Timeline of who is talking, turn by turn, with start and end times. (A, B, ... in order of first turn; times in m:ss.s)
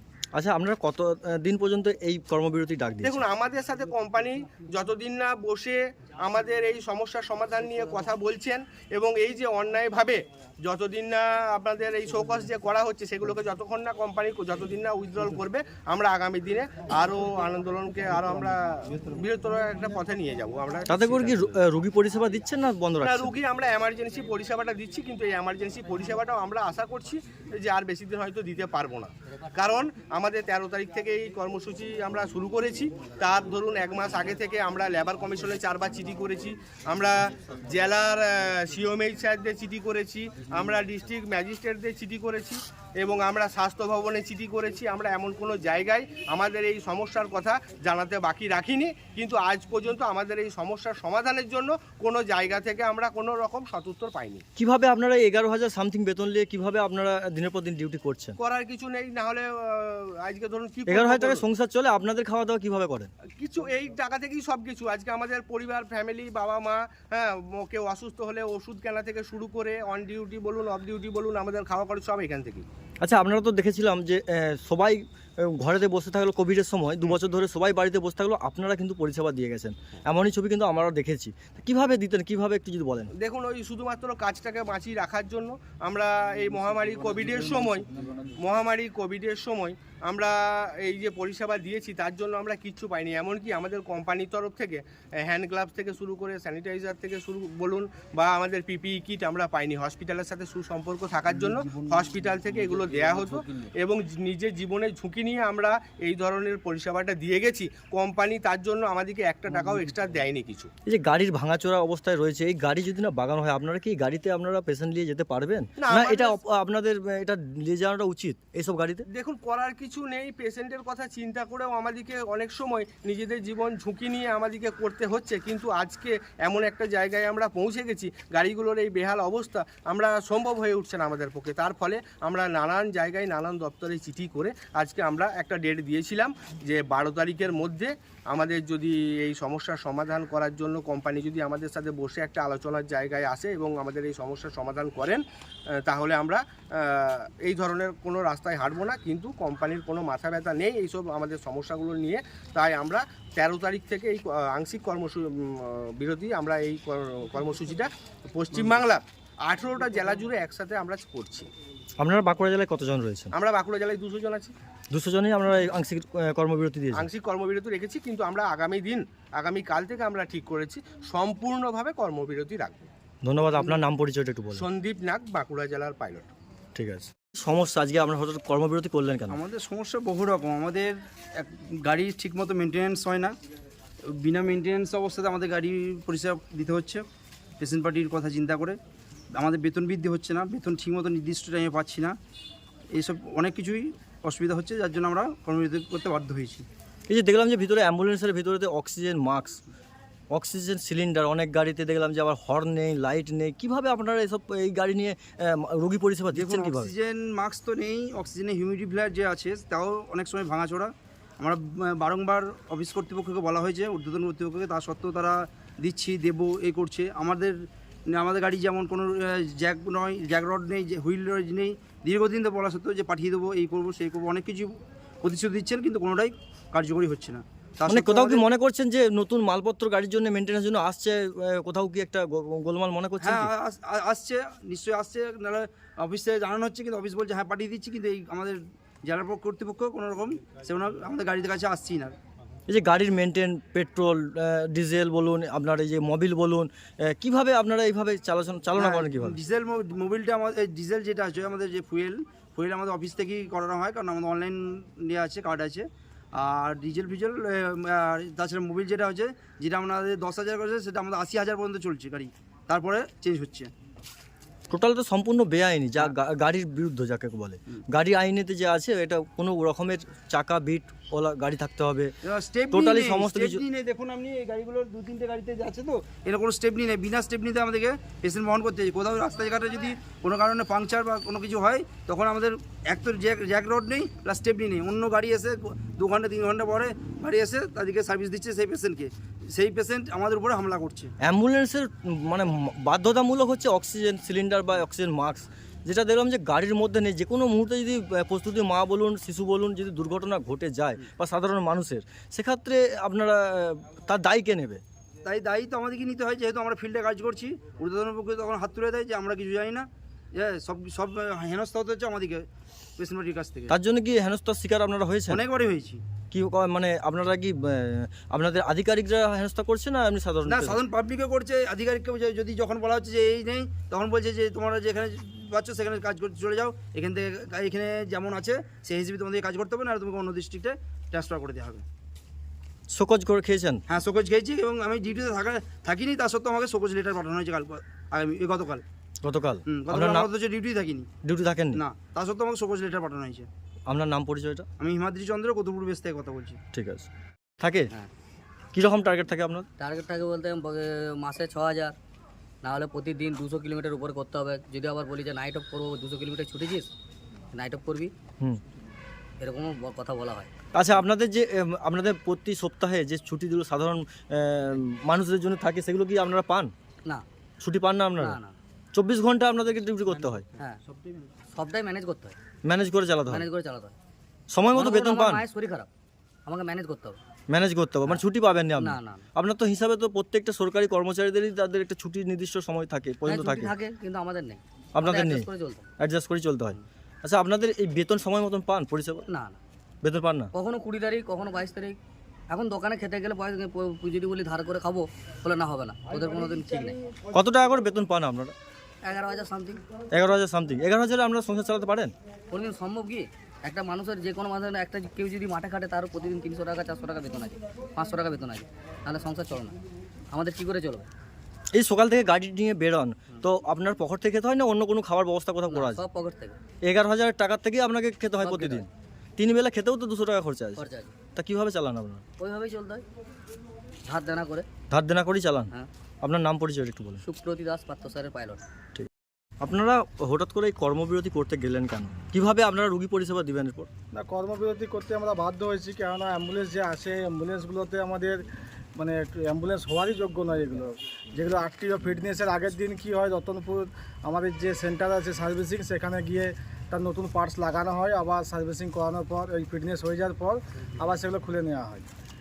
0:00.3-0:03.2 A
0:03.0-0:21.5 B
0:20.9-0:23.3 A
0:23.0-0:54.4 B
0:54.6-0:58.4 A
0:58.4-1:01.4 B
1:00.9-1:03.1 A
1:03.4-1:12.6 B
1:13.0-1:23.1 A
1:23.2-1:27.9 B
1:28.4-1:50.7 B
1:50.9-1:59.1 A
1:55.8-1:56.4 B
1:59.1-2:25.2 B
2:25.8-2:41.5 B
2:42.0-2:43.3 A
2:43.3-2:44.5 B
2:44.9-2:47.1 A
2:46.9-2:52.9 B
2:53.2-2:54.6 A
2:54.6-2:56.3 B
2:56.8-2:59.4 A
2:59.3-3:03.3 C
3:04.1-3:07.0 C
3:07.6-3:08.8 C
3:09.4-3:12.1 C
3:12.9-3:16.6 C
3:17.1-3:19.6 A
3:20.3-3:26.9 A
3:26.3-3:37.5 C
3:38.1-3:48.4 C
3:47.9-3:53.5 A
3:53.2-4:02.2 C
4:02.7-4:09.4 A
4:08.8-4:23.7 C
4:24.7-4:32.1 A
4:32.3-4:51.1 C
4:32.7-4:33.6 A
4:51.2-5:04.8 A
5:05.2-5:12.4 C
5:13.0-5:13.7 C
5:13.7-5:15.4 A
5:15.3-5:16.0 C
5:16.3-5:20.8 A
5:20.4-5:31.8 C
5:32.9-5:33.8 A
5:33.9-5:38.8 C
5:39.2-5:40.3 A
5:39.7-5:41.1 C
5:41.2-5:41.8 A
5:41.8-5:43.5 C
5:43.9-5:44.7 A
5:44.8-5:46.6 C
5:46.7-5:47.1 A
5:47.6-5:47.9 A
5:48.7-5:49.7 A
5:49.8-5:51.9 D
5:52.6-5:56.9 D
5:57.5-5:58.1 D
5:59.4-6:00.5 D
6:00.7-6:06.7 A
6:07.6-6:08.4 A
6:08.2-6:08.6 D
6:08.9-6:10.4 A
6:10.9-6:11.3 C
6:11.5-6:12.4 D
6:12.6-6:13.5 A
6:13.3-6:14.0 D
6:14.5-6:15.4 A
6:14.7-6:15.9 D
6:16.4-6:17.2 D
6:17.5-6:23.7 A
6:18.8-6:19.3 D
6:23.3-6:25.9 D
6:24.9-6:25.5 A
6:26.0-6:29.2 A
6:29.3-6:29.6 D
6:30.0-6:30.5 A
6:30.5-6:32.0 D
6:32.5-6:37.0 D
6:37.3-6:38.6 A
6:39.0-6:39.8 D
6:40.1-6:42.1 A
6:42.5-6:49.7 D
6:50.3-6:51.1 D
6:51.7-6:56.0 A
6:55.7-6:56.6 D
6:56.9-7:02.2 A
6:58.4-6:58.8 D
7:00.8-7:01.1 D
7:02.4-7:03.0 D
7:04.1-7:04.7 D
7:04.9-7:05.7 A
7:06.2-7:07.2 A
7:07.2-7:08.6 D
7:09.6-7:13.9 A
7:14.1-7:18.4 E
7:19.0-7:32.1 E